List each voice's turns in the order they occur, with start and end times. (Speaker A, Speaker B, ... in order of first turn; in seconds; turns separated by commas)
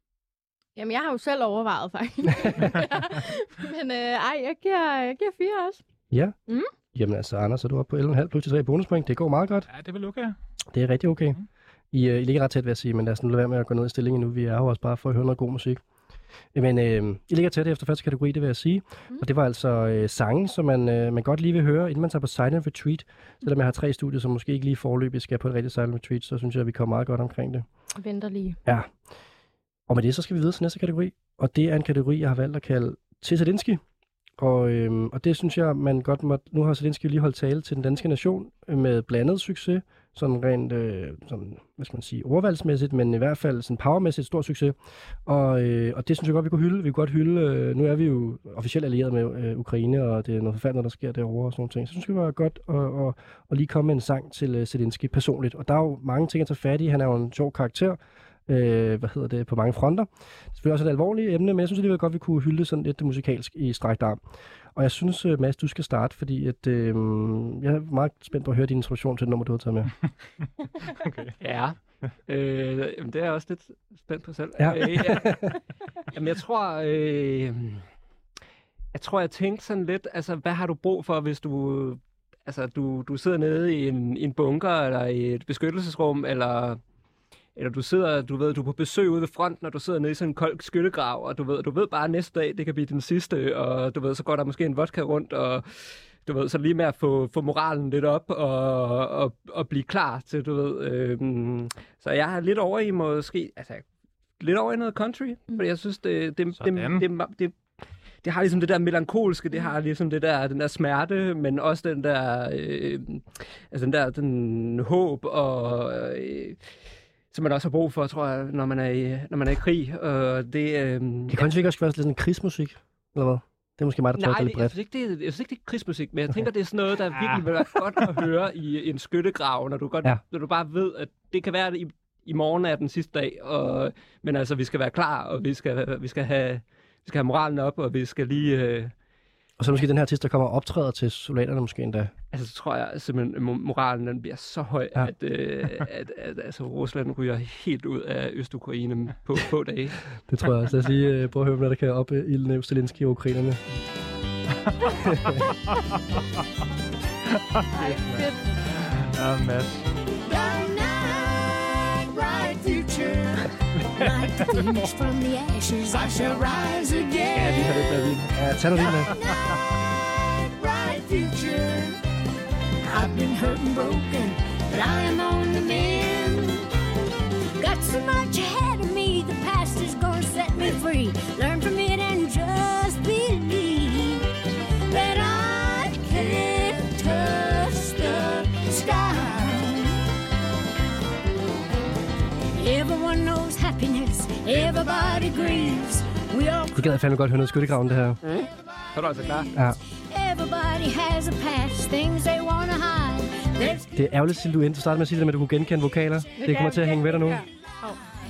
Speaker A: 0.8-5.8, Speaker B: 6.1-6.3, Speaker B: 6.9-9.7, Speaker C: 9.7-10.3, Speaker B: 10.7-11.4, Speaker B: 11.9-15.8, Speaker B: 16.5-27.6, Speaker A: 28.0-28.6, Speaker B: 28.6-28.9, Speaker B: 29.9-33.8, Speaker B: 34.4-64.2, Speaker B: 64.7-69.9, Speaker C: 70.9-71.3, Speaker D: 71.4-75.6, Speaker B: 74.6-75.5, Speaker D: 76.1-77.8, Speaker D: 78.9-86.8, Speaker D: 87.5-103.8, Speaker D: 104.4-107.6, Speaker C: 106.6-107.0, Speaker D: 108.2-116.7, Speaker D: 117.3-121.5, Speaker B: 121.3-124.8, Speaker D: 124.2-138.9, Speaker C: 127.1-127.5, Speaker B: 139.6-142.1, Speaker D: 142.3-150.1, Speaker B: 150.3-153.6, Speaker C: 154.8-155.9, Speaker B: 155.1-155.3, Speaker C: 157.3-159.8, Speaker A: 157.7-158.4, Speaker E: 160.2-168.1, Speaker C: 164.0-164.9, Speaker D: 167.3-168.3, Speaker B: 168.3-169.1, Speaker E: 168.7-171.9, Speaker E: 172.8-176.7, Speaker E: 177.6-184.3, Speaker E: 184.9-190.0, Speaker E: 192.5-196.9, Speaker B: 196.7-198.2, Speaker D: 198.2-199.5, Speaker E: 200.1-203.9, Speaker B: 203.9-207.4, Speaker A: 206.4-208.0, Speaker E: 206.5-207.0